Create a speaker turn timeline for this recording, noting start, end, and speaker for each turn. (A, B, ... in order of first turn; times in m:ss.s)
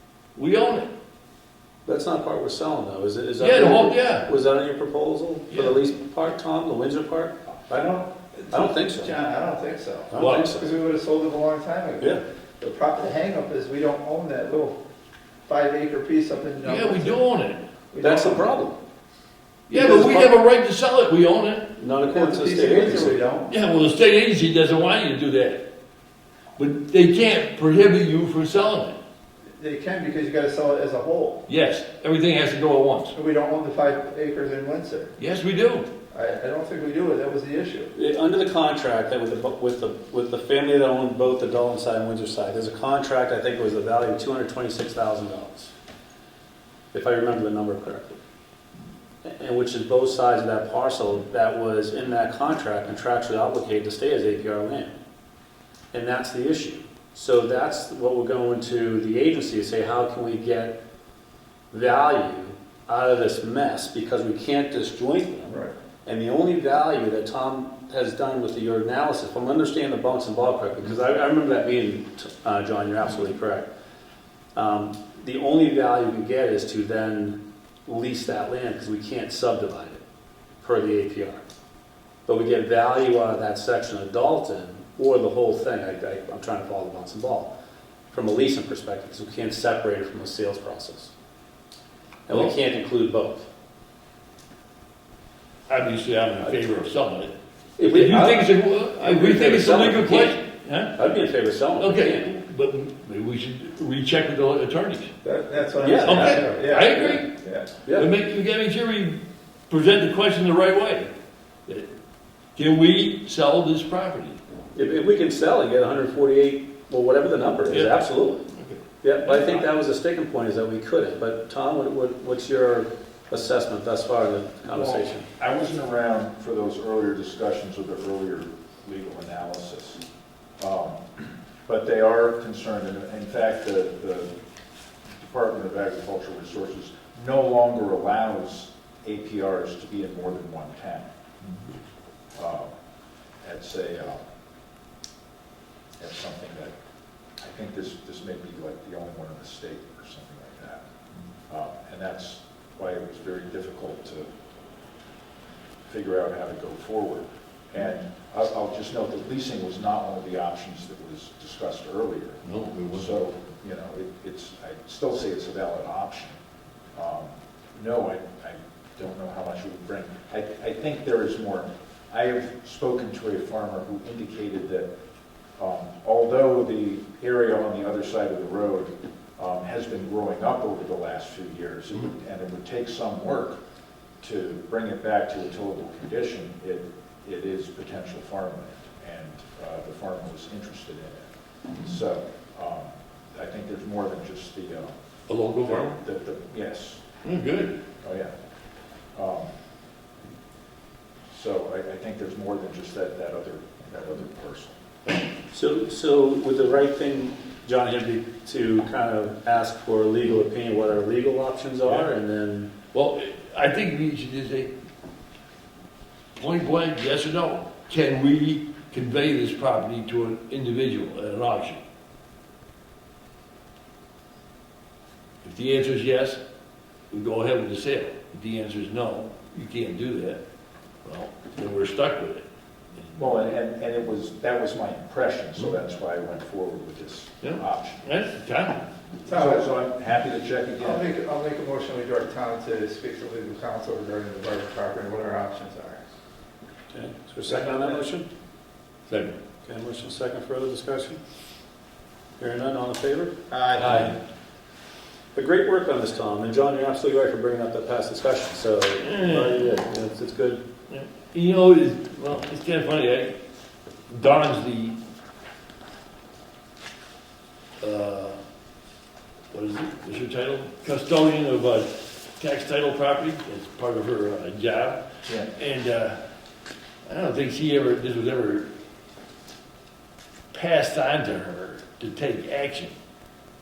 0:00.4-0:00.9 A
0:01.8-0:09.1 B
0:03.4-0:04.2 A
0:05.5-0:05.8 A
0:07.7-0:14.8 C
0:10.1-0:10.6 B
0:10.2-0:10.5 A
0:15.5-0:17.2 C
0:16.6-0:17.6 A
0:17.9-0:18.5 C
0:18.0-0:18.8 B
0:19.7-0:21.7 A
0:19.7-0:20.3 B
0:21.8-0:23.2 B
0:22.0-0:23.5 C
0:23.5-0:25.6 A
0:26.6-0:29.0 A
0:29.6-0:31.4 C
0:31.5-0:33.1 A
0:33.1-0:35.1 C
0:35.2-0:35.9 A
0:36.1-0:37.9 C
0:37.9-0:45.7 B
0:46.9-0:48.2 B
0:49.2-0:55.0 B
0:55.9-1:00.8 B
1:01.7-1:05.5 B
1:05.5-1:05.7 C
1:06.0-1:13.7 B
1:14.5-1:20.0 B
1:20.6-1:21.4 B
1:22.2-1:27.5 B
1:28.1-1:31.1 B
1:32.3-1:33.5 B
1:35.7-1:40.9 A
1:37.8-1:40.4 B
1:40.9-1:42.3 B
1:41.8-1:45.1 A
1:45.2-1:47.7 C
1:45.8-1:46.4 B
1:46.0-1:47.3 A
1:47.8-1:48.1 B
1:47.9-1:51.1 A
1:52.6-1:54.4 A
1:54.7-1:58.5 B
1:57.7-1:58.8 A
1:59.0-2:05.2 B
1:59.2-1:59.6 D
2:04.7-2:10.0 D
2:10.6-2:14.3 D
2:15.2-2:21.1 D
2:22.4-2:22.7 D
2:23.4-2:24.2 D
2:26.0-2:26.7 D
2:27.4-2:30.8 D
2:31.5-2:34.3 D
2:35.9-2:46.4 D
2:42.4-2:43.1 A
2:46.9-2:54.9 D
2:55.6-3:03.6 D
3:04.2-3:14.9 D
3:15.3-3:16.0 A
3:15.6-3:17.0 D
3:17.2-3:17.8 A
3:18.0-3:18.3 D
3:19.1-3:19.5 D
3:21.3-3:24.8 D
3:25.5-3:32.7 B
3:31.8-3:32.1 A
3:32.9-3:34.7 A
3:36.4-3:41.8 A
3:45.4-3:46.4 A
3:47.1-3:50.4 A
3:51.0-3:53.5 A
3:53.2-3:58.0 D
3:57.4-3:58.9 A
3:59.2-3:59.7 C
3:59.3-4:01.0 D
4:00.8-4:06.0 C
4:06.9-4:08.3 B
4:07.4-4:08.0 C
4:09.1-4:09.4 A
4:09.6-4:11.2 B
4:12.4-4:13.3 B
4:13.5-4:14.1 C
4:13.8-4:14.2 A
4:15.3-4:20.6 B
4:19.0-4:19.8 A
4:20.9-4:23.4 A
4:24.1-4:25.0 A
4:27.8-4:28.4 A
4:29.5-4:35.0 A
4:35.5-4:36.2 A
4:37.0-4:38.7 A
4:40.5-4:42.9 A